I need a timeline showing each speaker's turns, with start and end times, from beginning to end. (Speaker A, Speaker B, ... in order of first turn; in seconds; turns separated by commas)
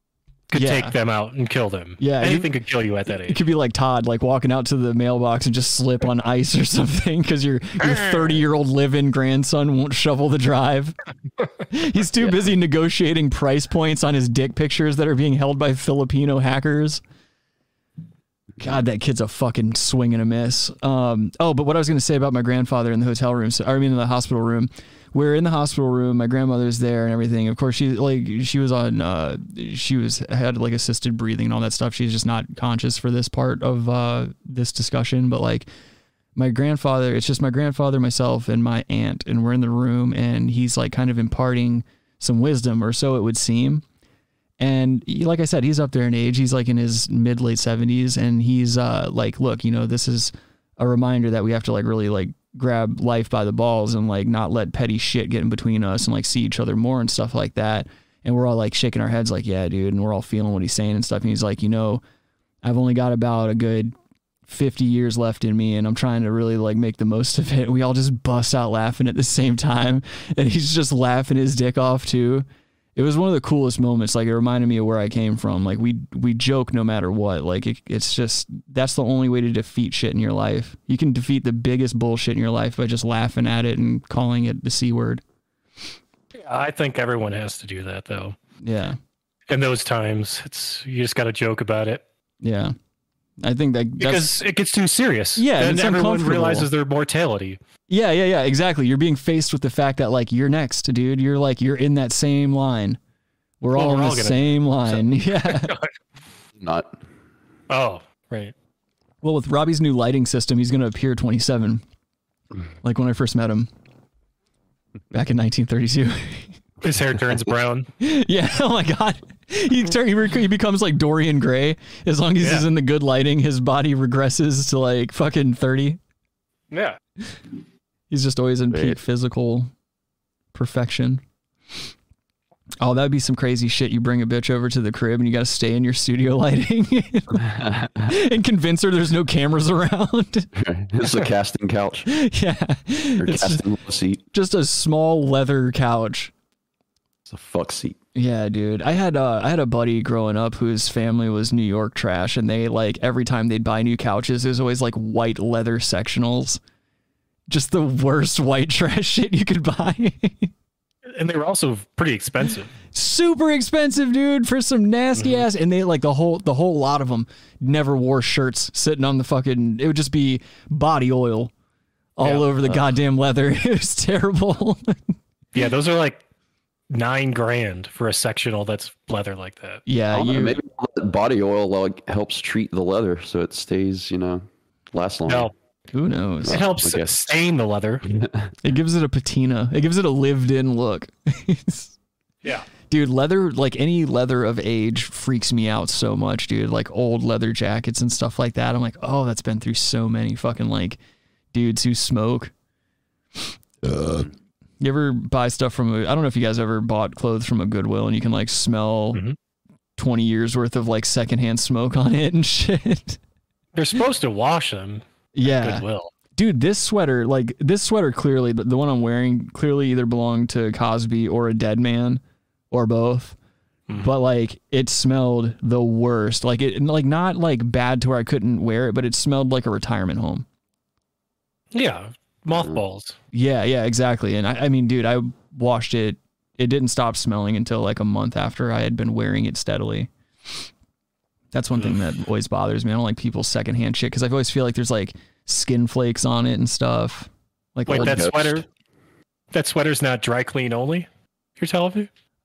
Speaker A: 0.5-3.4, Speaker B: 0.5-0.9, Speaker B: 2.0-2.5, Speaker B: 3.1-10.9, Speaker A: 7.8-8.3, Speaker B: 11.7-17.0, Speaker B: 18.6-35.7, Speaker B: 36.4-43.8, Speaker B: 44.6-62.0, Speaker B: 62.6-63.9, Speaker B: 64.5-85.2, Speaker A: 86.3-88.4, Speaker B: 88.6-89.0, Speaker A: 89.5-92.0, Speaker B: 92.4-92.8, Speaker B: 93.4-94.4, Speaker A: 94.0-97.6, Speaker B: 95.4-96.7, Speaker B: 97.9-103.0, Speaker B: 103.6-105.8, Speaker A: 103.7-105.9, Speaker C: 106.6-106.9, Speaker A: 107.7-108.5, Speaker B: 109.2-111.8, Speaker B: 112.8-113.7, Speaker B: 115.1-116.5, Speaker A: 116.8-117.9, Speaker B: 118.0-126.0, Speaker A: 122.4-122.7, Speaker A: 126.7-127.0, Speaker B: 128.1-129.7, Speaker B: 130.5-131.2, Speaker B: 132.8-137.5, Speaker C: 137.4-138.1, Speaker B: 138.0-140.5, Speaker C: 140.6-142.1, Speaker B: 142.1-143.6, Speaker C: 143.2-144.2, Speaker B: 144.3-146.3, Speaker C: 147.3-148.0, Speaker B: 148.2-156.6, Speaker B: 157.5-160.5, Speaker A: 161.1-162.7, Speaker B: 162.9-171.5, Speaker A: 165.2-165.4, Speaker B: 172.2-175.1, Speaker A: 172.2-172.5, Speaker A: 175.5-176.2, Speaker A: 176.9-179.8, Speaker B: 179.9-180.6, Speaker C: 180.1-185.5, Speaker B: 185.9-186.6, Speaker C: 186.4-187.1, Speaker A: 186.5-188.1, Speaker C: 188.1-188.5, Speaker B: 188.6-191.9, Speaker B: 192.9-201.0, Speaker B: 201.5-202.5, Speaker B: 203.8-204.2, Speaker B: 204.8-209.2, Speaker B: 210.0-213.2, Speaker A: 213.8-216.1, Speaker B: 215.3-215.8, Speaker B: 216.3-223.4, Speaker B: 224.0-230.5, Speaker A: 231.7-233.2, Speaker B: 233.3-240.1, Speaker B: 241.5-248.3, Speaker A: 247.9-248.6, Speaker C: 247.9-248.6, Speaker A: 249.5-252.1